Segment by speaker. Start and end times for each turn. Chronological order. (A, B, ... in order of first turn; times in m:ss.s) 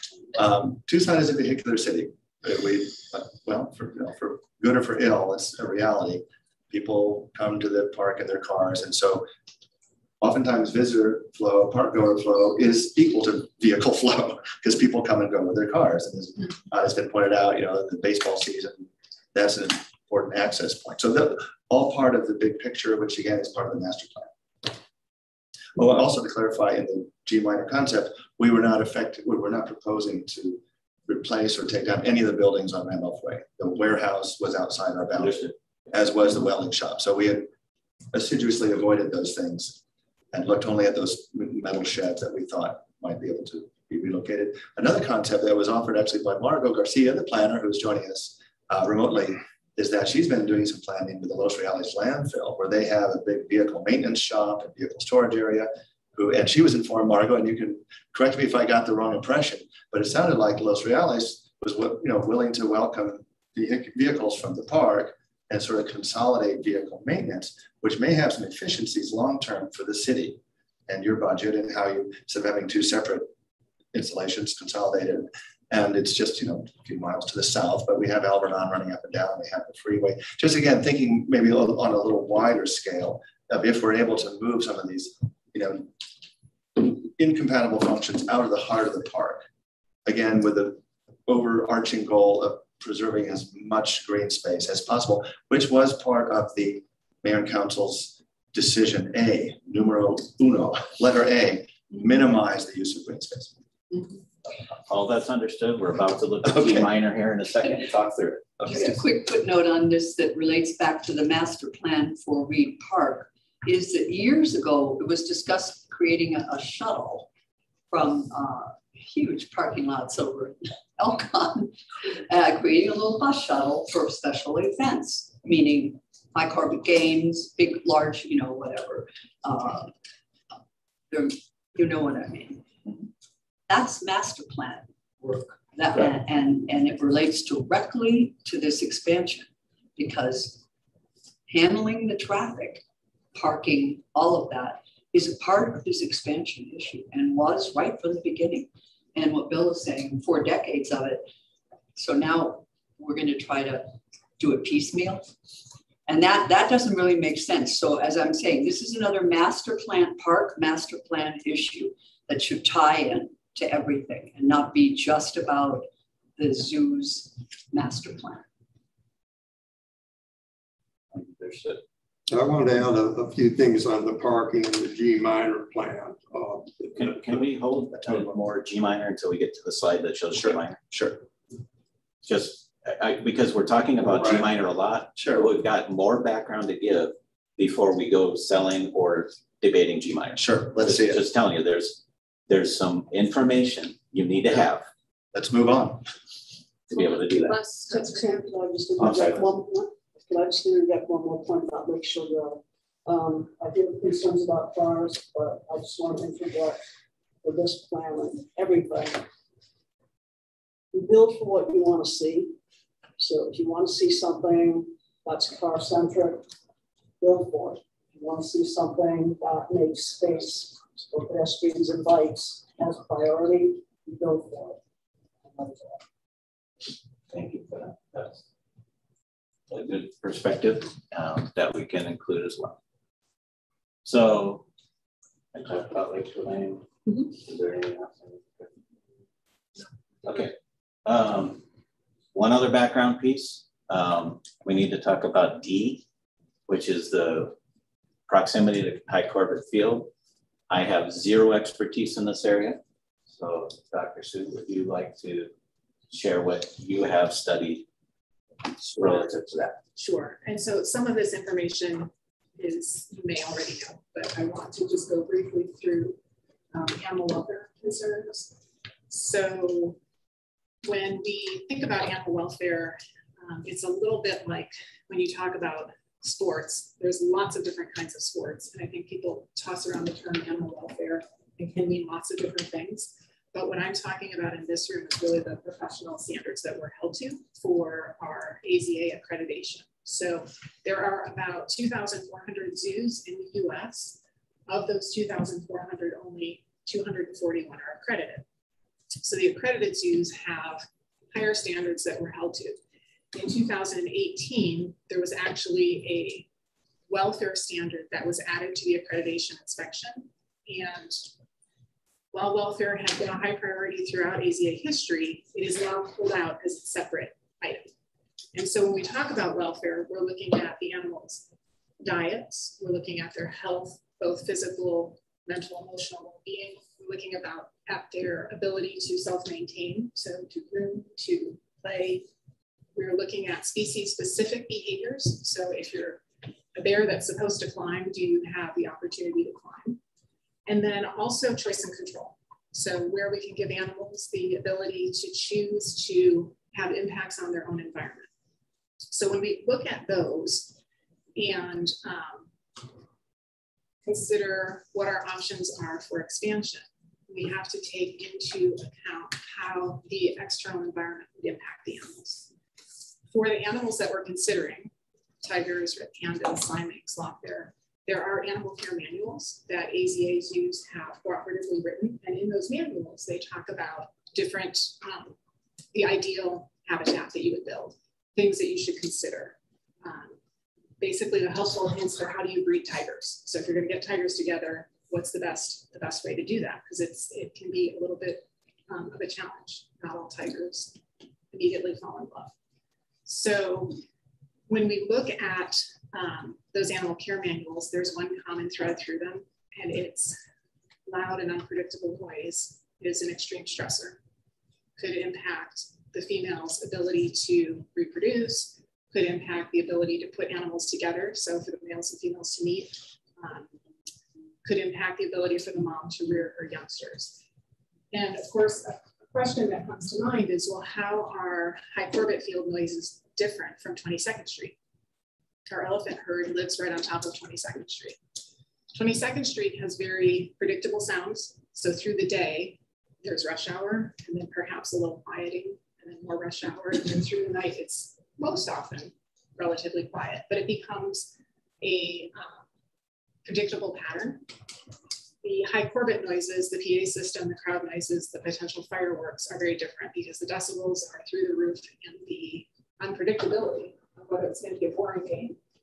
0:00.3-0:09.3 A
0:10.2-0:24.7 A
0:25.8-0:37.5 A
0:35.2-0:35.5 B
0:38.1-0:39.8 A
0:40.3-1:13.3 A
1:13.9-1:25.9 A
1:26.8-1:29.4 A
1:30.0-1:43.6 A
1:44.9-1:48.5 B
1:46.4-1:46.9 A
1:48.6-1:49.0 A
1:48.7-1:57.3 C
1:57.9-2:09.9 C
2:11.1-2:12.6 C
2:13.7-2:20.6 C
2:21.5-2:22.8 C
2:23.3-2:31.3 C
2:32.0-2:35.3 C
2:36.1-2:48.4 C
2:51.1-2:51.8 B
2:52.3-2:57.3 D
2:57.0-3:00.8 B
2:57.9-2:58.4 A
3:00.9-3:01.2 A
3:02.2-3:14.9 B
3:04.2-3:04.5 A
3:05.2-3:05.5 A
3:10.4-3:11.2 A
3:15.3-3:16.1 A
3:16.9-3:17.6 B
3:17.5-3:26.8 E
3:19.0-3:19.5 B
3:27.4-3:29.2 E
3:30.9-3:32.5 E
3:33.2-3:36.4 E
3:37.2-3:44.8 E
3:45.4-3:46.0 E
3:47.3-3:48.4 B
3:49.7-3:52.8 B
3:54.0-3:54.6 B
3:55.5-3:58.7 B
4:00.2-4:00.5 B
4:01.1-4:01.6 B
4:02.3-4:06.0 B
4:06.7-4:07.6 B
4:08.3-4:10.1 B
4:10.7-4:12.8 B
4:13.3-4:15.5 B
4:16.1-4:17.9 B
4:18.8-4:19.8 B
4:20.0-4:26.2 F
4:26.7-4:28.6 F
4:29.1-4:30.0 F
4:30.8-4:58.4 F
4:59.2-5:02.8 F
5:03.3-5:06.5 F
5:07.1-5:11.3 F
5:12.3-5:17.9 F
5:18.5-5:21.5 F
5:22.0-5:32.2 F
5:33.0-5:36.2 F
5:36.8-5:40.0 F
5:40.7-5:48.3 F
5:49.1-5:50.8 F
5:51.4-5:52.5 F
5:54.0-6:02.5 F
6:03.3-6:15.4 F
6:15.9-6:20.4 F
6:21.0-6:31.0 F
6:31.5-6:32.5 F
6:33.3-6:34.0 F
6:34.7-6:40.4 F
6:41.1-6:44.2 F
6:45.0-6:53.7 F
6:54.6-6:57.4 F
6:58.1-7:04.8 F
7:05.7-7:08.2 F
7:08.9-7:22.6 F
7:23.4-7:24.4 F
7:25.4-7:35.6 F